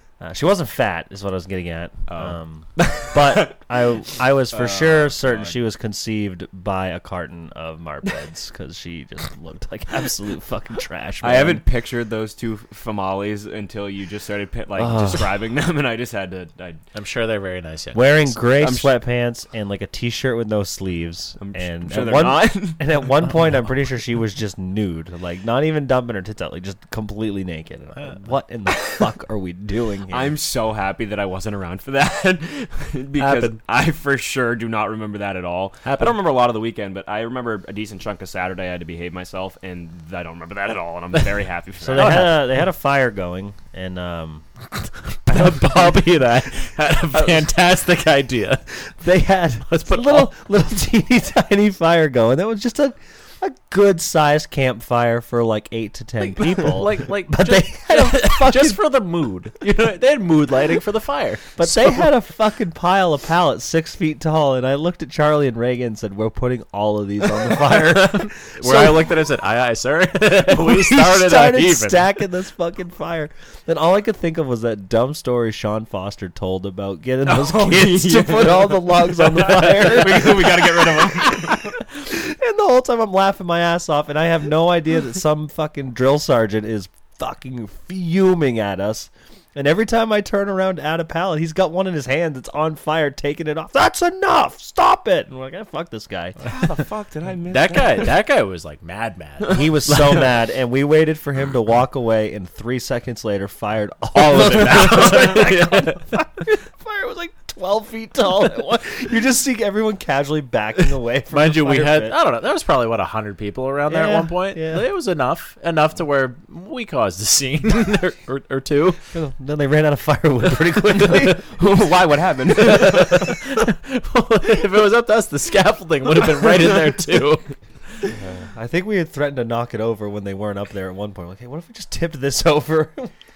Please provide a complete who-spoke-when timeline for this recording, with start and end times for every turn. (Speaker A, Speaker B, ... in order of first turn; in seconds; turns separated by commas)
Speaker A: 0.2-11.6, Speaker B: 2.1-3.6, Speaker B: 4.5-5.6, Speaker B: 11.2-16.8, Speaker A: 14.8-15.2, Speaker C: 16.9-18.4, Speaker A: 17.9-30.4, Speaker B: 18.6-18.9, Speaker B: 21.4-22.8, Speaker B: 30.1-42.4, Speaker C: 33.2-33.6, Speaker C: 35.8-36.2, Speaker A: 41.8-44.5, Speaker C: 41.9-42.4, Speaker C: 45.2-48.7, Speaker A: 45.3-46.0, Speaker A: 49.0-58.8, Speaker C: 49.7-50.3, Speaker C: 56.2-62.1, Speaker A: 61.6-69.2, Speaker C: 67.7-72.2, Speaker A: 70.4-96.5, Speaker B: 77.2-81.7, Speaker B: 96.4-98.1, Speaker C: 97.5-100.2, Speaker A: 99.5-112.2, Speaker C: 104.1-106.0, Speaker C: 111.3-119.0, Speaker A: 113.9-114.8, Speaker A: 119.1-121.5, Speaker B: 121.2-123.3, Speaker C: 122.6-128.1, Speaker A: 128.1-133.1